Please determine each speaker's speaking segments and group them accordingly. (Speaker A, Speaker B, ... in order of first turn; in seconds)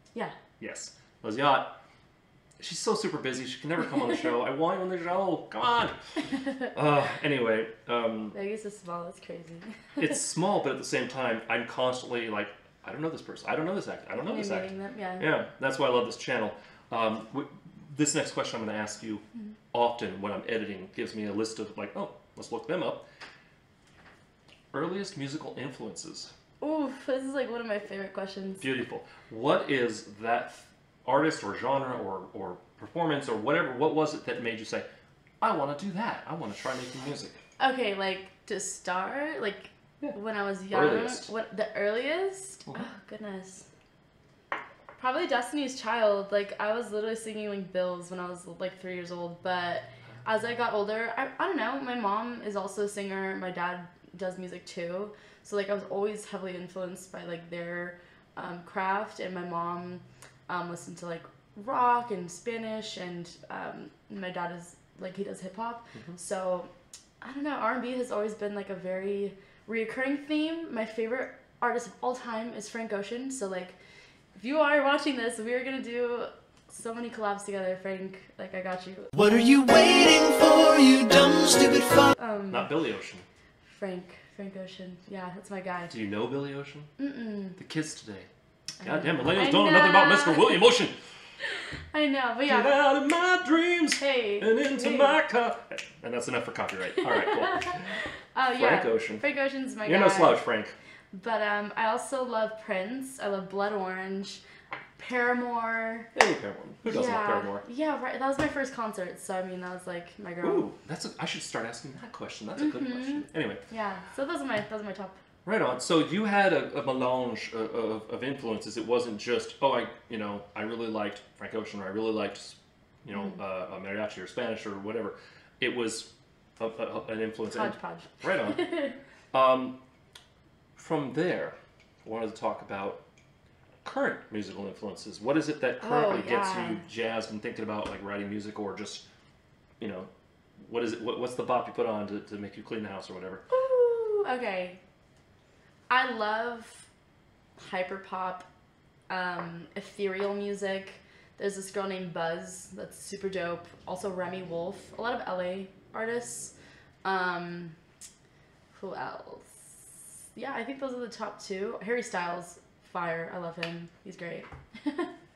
Speaker A: 0.6-1.8, 2.6-6.0, 6.7-8.3, 10.0-23.1, 24.7-26.3, 28.6-34.9, 35.4-37.4, 40.7-41.3, 82.5-83.2, 85.9-86.9, 87.6-88.3, 88.8-90.9, 92.5-97.9, 98.5-99.2, 99.8-100.7, 106.1-107.6, 110.4-113.6, 115.4-128.6, 129.3-129.8, 130.8-133.0, 133.8-139.1, 139.8-143.4
Speaker B: 8.3-10.0, 14.1-15.3, 26.6-28.6, 37.6-43.7, 45.0-73.8, 74.3-79.1, 82.2-82.7, 83.6-85.9, 87.0-87.6, 88.8-90.6, 91.9-92.7, 94.0-95.2, 97.1-97.8, 98.3-100.4, 101.1-104.4, 105.0-106.1, 106.8-110.7, 112.6-115.2, 127.5-128.9, 135.8-136.8, 143.5-144.8, 145.9-146.9, 147.6-148.5, 149.1-157.8, 158.7-165.1
Speaker C: 79.1-82.1